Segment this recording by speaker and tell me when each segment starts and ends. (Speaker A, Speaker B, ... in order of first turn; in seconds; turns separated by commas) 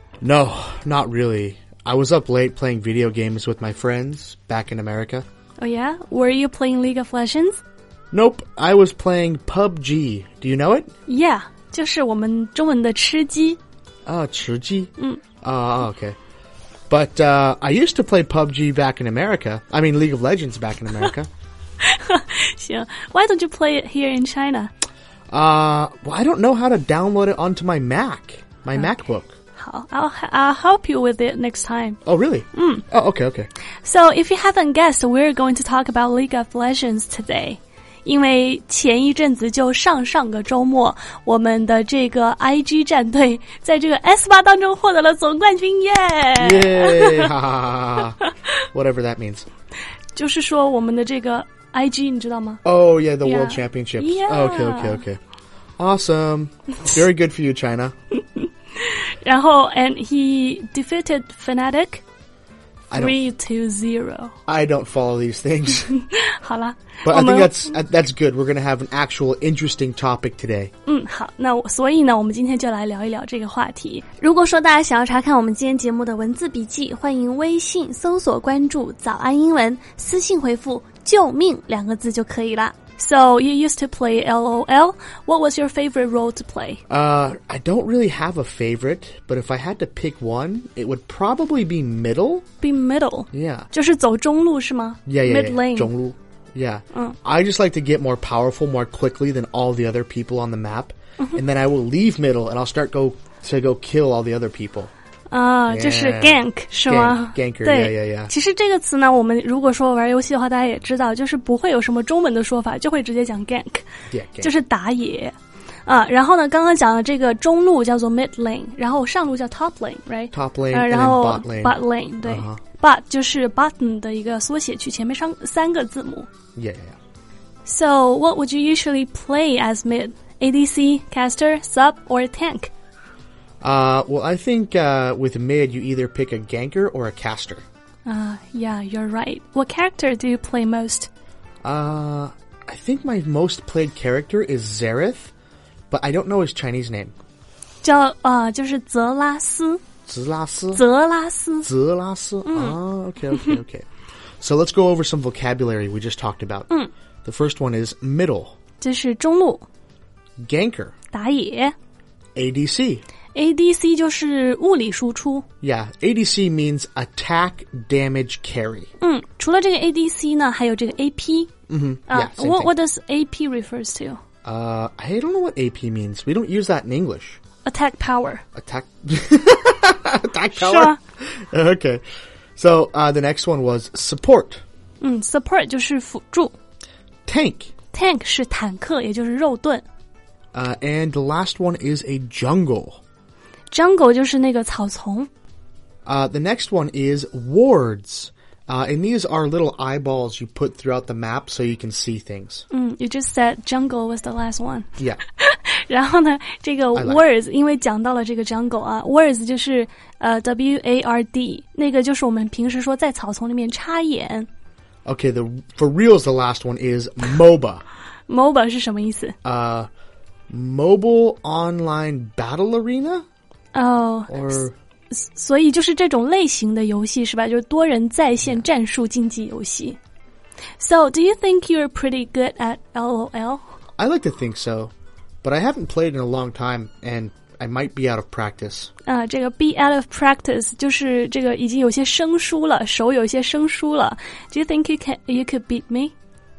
Speaker A: 0.2-5.2, Speaker B: 5.6-7.6, Speaker A: 8.1-10.9, Speaker B: 11.1-13.6, Speaker A: 14.1-16.2, Speaker A: 16.9-21.3, Speaker B: 21.8-24.7, Speaker A: 25.3-29.4, Speaker B: 29.6-32.0, Speaker A: 32.0-33.5, Speaker B: 32.5-32.8, Speaker B: 33.8-47.3, Speaker A: 46.4-48.2, Speaker A: 48.7-49.5, Speaker B: 50.1-52.6, Speaker A: 52.6-55.2, Speaker B: 53.2-55.0, Speaker A: 55.8-57.9, Speaker B: 58.3-62.0, Speaker A: 62.9-63.2, Speaker B: 62.9-64.3, Speaker A: 64.5-65.9, Speaker B: 65.9-67.7, Speaker A: 67.0-70.7, Speaker B: 70.8-86.8, Speaker A: 86.9-92.4, Speaker B: 92.6-95.9, Speaker A: 93.3-93.7, Speaker A: 95.0-104.9, Speaker B: 105.3-113.8, Speaker A: 105.7-108.3, Speaker A: 114.1-114.5, Speaker B: 114.4-115.3, Speaker B: 115.8-126.3, Speaker A: 120.3-122.6, Speaker A: 126.5-127.0, Speaker B: 127.6-132.7, Speaker A: 133.6-137.6, Speaker B: 138.1-141.1, Speaker A: 141.6-145.3, Speaker A: 145.9-147.1, Speaker B: 147.8-149.8, Speaker A: 150.1-150.8, Speaker B: 150.7-151.7, Speaker A: 151.6-153.8, Speaker B: 152.4-152.8, Speaker B: 153.3-153.6, Speaker A: 154.4-156.7, Speaker A: 157.2-158.6, Speaker B: 158.8-159.6, Speaker A: 160.4-160.9, Speaker B: 161.1-161.7, Speaker A: 162.3-163.0, Speaker B: 163.3-165.4, Speaker A: 165.6-168.9, Speaker B: 169.0-171.5, Speaker A: 171.7-172.7, Speaker B: 172.1-174.2, Speaker A: 174.4-177.4, Speaker B: 177.6-178.4, Speaker A: 178.6-182.0, Speaker B: 180.5-181.0, Speaker A: 182.6-184.6, Speaker B: 185.0-186.5, Speaker A: 187.2-187.7, Speaker B: 187.9-189.8, Speaker A: 190.5-193.0, Speaker B: 193.7-195.3, Speaker A: 196.1-202.6, Speaker B: 202.7-214.5, Speaker A: 206.9-207.2, Speaker A: 215.0-217.8, Speaker B: 218.3-219.3, Speaker A: 219.4-219.9, Speaker A: 220.5-223.2, Speaker B: 223.7-224.6, Speaker A: 224.3-224.7, Speaker B: 225.1-230.0, Speaker B: 230.8-233.6, Speaker A: 234.0-234.9, Speaker A: 235.4-238.9, Speaker B: 239.1-246.1